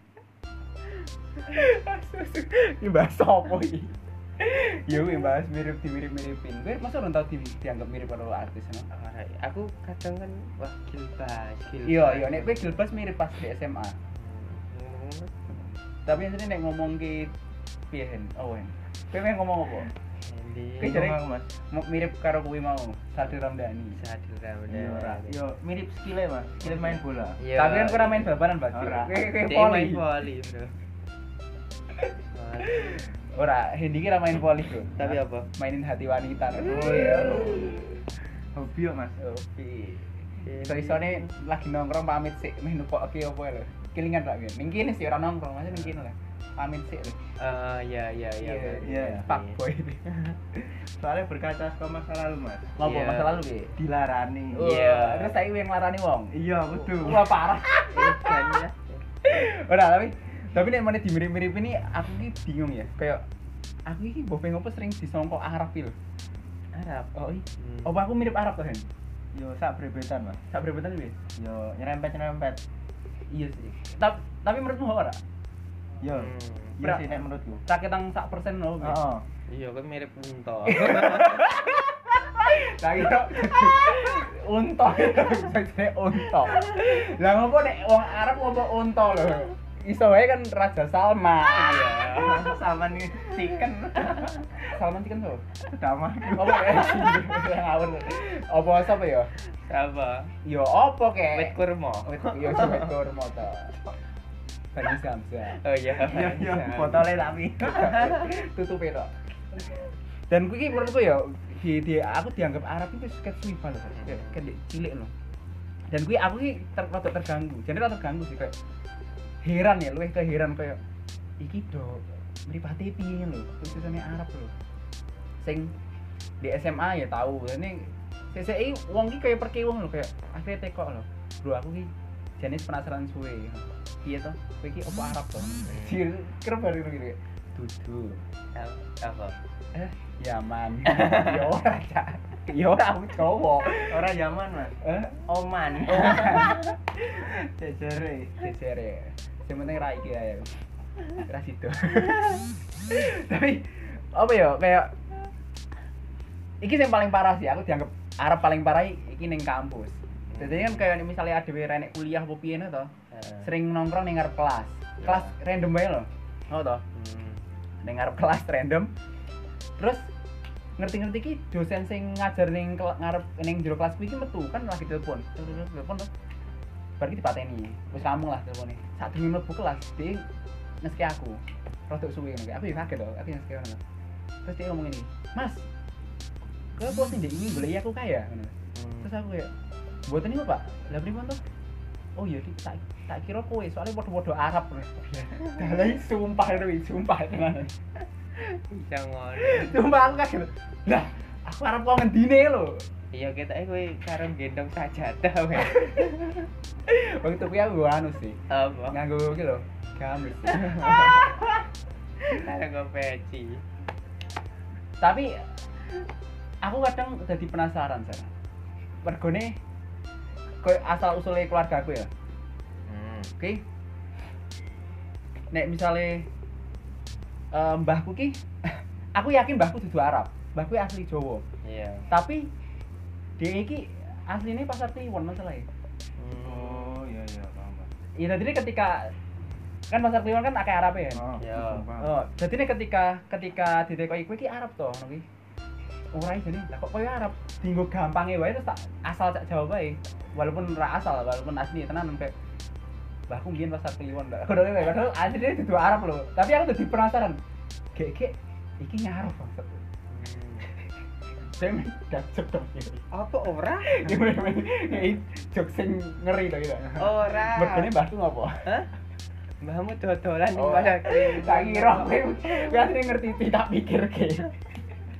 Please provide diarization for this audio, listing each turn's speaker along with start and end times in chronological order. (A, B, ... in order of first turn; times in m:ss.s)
0:01.4-0:08.8 A
0:08.9-0:12.9 B
0:11.8-0:14.0 A
0:14.1-0:15.3 B
0:16.0-0:17.3 A
0:17.9-0:19.9 A
0:20.2-0:21.1 B
0:20.8-0:21.2 A
0:20.8-0:21.5 C
0:21.7-0:24.0 A
0:23.9-0:25.4 B
0:24.7-0:27.4 C
0:26.7-0:28.4 B
0:27.5-0:30.1 A
0:28.7-0:29.3 C
0:29.4-0:30.7 B
0:32.3-0:33.0 B
0:32.8-0:38.0 A
0:35.0-0:35.5 B
0:36.6-0:37.8 C
0:38.5-0:39.2 C
0:39.2-0:47.2 A
0:40.4-0:41.3 B
0:47.4-0:50.4 B
0:48.4-0:50.0 A
0:48.8-0:49.3 C
0:50.8-0:52.7 C
0:52.8-0:53.7 A
0:52.8-0:53.4 B
0:53.8-0:54.8 C
0:54.5-0:58.5 A
0:54.6-0:55.4 B
0:56.3-0:57.4 C
0:57.9-0:59.0 B
0:59.2-1:03.2 A
1:03.9-1:05.9 A
1:06.7-1:07.9 B
1:07.2-1:08.8 A
1:09.3-1:10.4 C
1:10.5-1:11.2 A
1:11.4-1:12.6 C
1:13.3-1:15.2 A
1:16.0-1:17.6 C
1:16.1-1:16.8 B
1:16.8-1:17.1 A
1:17.6-1:19.0 A
1:18.8-1:19.2 C
1:19.5-1:21.4 B
1:20.7-1:32.0 A
1:31.5-1:32.6 B
1:32.0-1:34.7 C
1:34.7-1:35.4 A
1:35.7-1:37.2 C
1:36.3-1:39.3 A
1:39.6-1:40.3 B
1:40.4-1:43.7 A
1:41.3-1:42.9 B
1:44.7-1:45.6 A
1:45.5-1:48.2 B
1:46.0-1:48.2 C
1:47.9-1:55.1 A
1:54.0-1:54.4 B
1:55.9-1:58.5 A
1:59.4-2:00.8 A
2:01.4-2:04.5 A
2:05.4-2:05.7 A
2:06.4-2:18.2 A
2:15.6-2:16.0 B
2:18.5-2:19.4 B
2:19.7-2:24.1 A
2:20.9-2:21.3 B
2:23.9-2:28.4 C
2:24.8-2:25.3 A
2:25.9-2:26.7 A
2:28.4-2:30.5 A
2:31.2-2:34.9 A
2:36.6-2:42.9 A
2:40.3-2:40.8 B
2:43.1-2:43.5 B
2:43.4-2:46.8 A
2:45.0-2:45.3 B
2:46.9-2:47.4 B
2:47.8-2:48.9 A
2:50.8-2:56.1 A
2:57.0-3:00.2 A
3:00.8-3:03.8 A
3:04.4-3:05.6 A
3:06.8-3:09.5 A
3:08.7-3:09.1 B
3:10.1-3:11.4 A
3:12.2-3:17.7 A
3:18.4-3:20.2 B
3:19.4-3:22.8 A
3:23.1-3:26.5 B
3:26.9-3:28.3 A
3:28.5-3:29.0 B
3:28.9-3:30.8 A
3:30.4-3:31.6 B
3:32.2-3:33.6 B
3:35.0-3:35.3 A
3:36.6-3:38.3 A
3:39.0-3:39.5 A
3:40.6-3:42.1 A
3:42.9-3:43.3 B
3:45.5-3:46.2 A
3:47.5-3:48.3 A
3:49.1-3:51.4 A
3:51.6-3:52.1 B
3:52.1-3:52.4 A
3:53.4-3:55.6 A
3:56.2-3:57.0 B
3:56.3-3:57.9 C
3:58.2-3:59.1 A
3:59.9-4:01.4 A
4:01.1-4:02.1 C
4:01.4-4:01.9 B
4:02.0-4:05.2 A
4:06.1-4:12.3 A
4:13.3-4:17.4 A
4:17.9-4:19.8 A
4:20.1-4:20.7 B
4:21.6-4:23.0 A
4:23.1-4:23.9 B
4:23.8-4:28.5 A
4:26.9-4:27.9 B
4:28.6-4:28.9 B
4:29.6-4:32.9 B
4:30.5-4:34.6 A